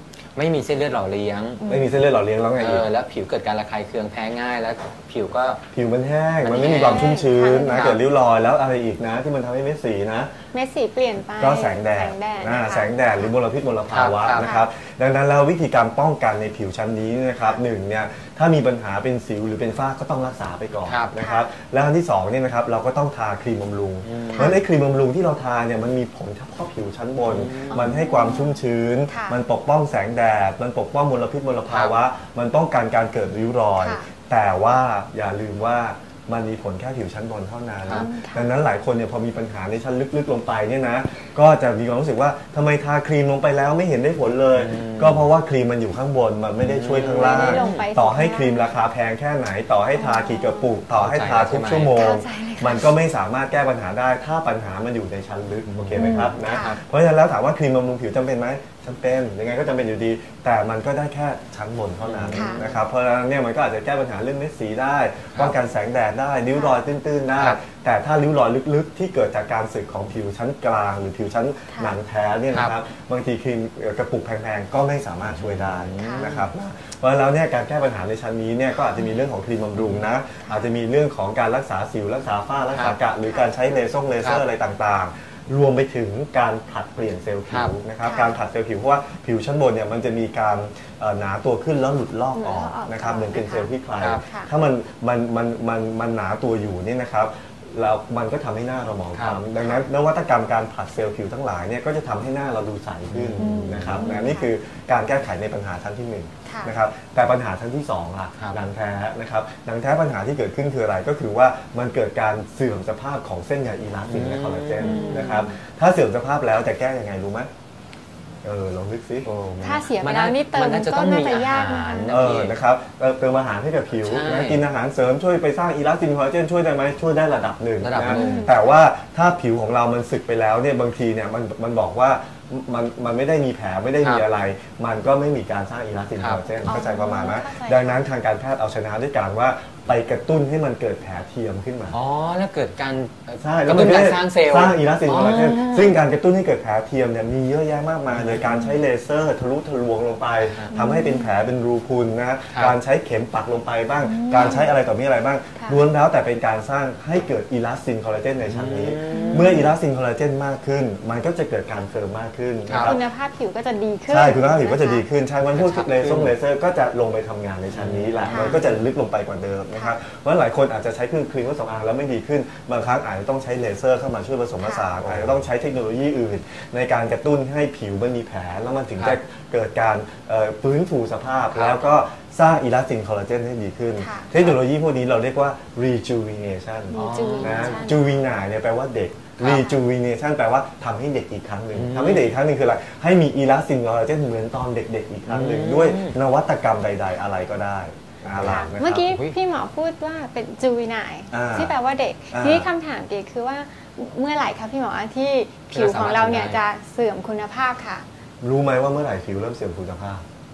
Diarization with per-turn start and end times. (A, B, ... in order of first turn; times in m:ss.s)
0:00.4-0:01.6 A
0:01.6-0:01.9 B
0:01.6-0:02.8 C
0:02.6-0:05.6 A
0:05.7-0:10.3 C
0:06.4-0:08.0 A
0:06.5-0:08.0 B
0:10.5-0:13.3 B
0:11.4-1:57.5 C
0:13.9-0:14.5 A
0:14.3-0:14.6 B
0:20.8-0:21.1 A
0:21.2-0:21.5 B
0:24.0-0:24.5 A
0:27.2-0:27.9 A
0:27.7-0:28.6 B
0:29.1-0:29.4 B
0:31.7-0:31.9 A
0:33.8-0:34.0 B
0:37.9-0:38.5 B
0:44.5-0:45.2 A
0:46.6-0:47.9 A
0:47.1-0:48.8 B
0:49.9-0:50.8 B
0:50.9-0:51.9 A
0:51.9-0:52.9 B
0:55.7-0:56.4 A
0:55.9-0:56.8 B
1:02.0-1:02.8 A
1:02.3-1:02.6 B
1:06.5-1:06.8 B
1:12.5-1:12.8 A
1:15.2-1:16.5 A
1:16.0-1:16.3 B
1:19.8-1:20.0 A
1:22.7-1:23.0 A
1:27.5-1:27.7 A
1:28.0-1:28.4 B
1:32.3-1:34.5 B
1:39.1-1:39.4 A
1:39.6-1:39.8 B
1:43.1-1:44.2 A
1:43.4-1:44.5 B
1:46.4-1:46.7 B
1:48.4-1:48.6 A
1:54.1-1:55.4 A
1:54.8-1:55.5 B
1:58.4-1:59.3 C
1:59.2-2:02.5 A
1:59.6-2:02.1 B
2:02.1-2:22.0 C
2:03.9-2:04.6 A
2:07.8-2:08.5 A
2:08.0-2:08.6 B
2:16.2-2:16.4 A
2:16.6-2:18.0 B
2:21.9-2:26.0 A
2:23.4-2:43.0 C
2:28.1-2:28.5 A
2:30.4-2:30.7 A
2:30.7-2:31.3 B
2:32.5-2:32.8 A
2:34.0-2:34.7 B
2:38.4-2:39.6 A
2:39.1-2:39.7 B
2:42.7-2:42.9 A
2:42.7-2:45.0 B
2:44.1-3:19.1 C
2:45.5-2:46.3 A
2:47.7-2:48.8 A
2:48.3-2:48.5 B
2:49.7-2:50.0 B
2:54.6-2:54.9 B
2:55.0-2:55.4 A
3:01.5-3:01.9 A
3:04.0-3:04.3 B
3:06.9-3:08.0 B
3:06.9-3:07.9 A
3:09.4-3:09.7 B
3:11.7-3:12.3 A
3:15.3-3:16.2 A
3:18.2-3:19.4 A
3:18.4-3:28.0 B
3:21.3-3:21.7 C
3:22.3-3:22.7 C
3:25.7-3:26.6 A
3:28.4-3:30.2 C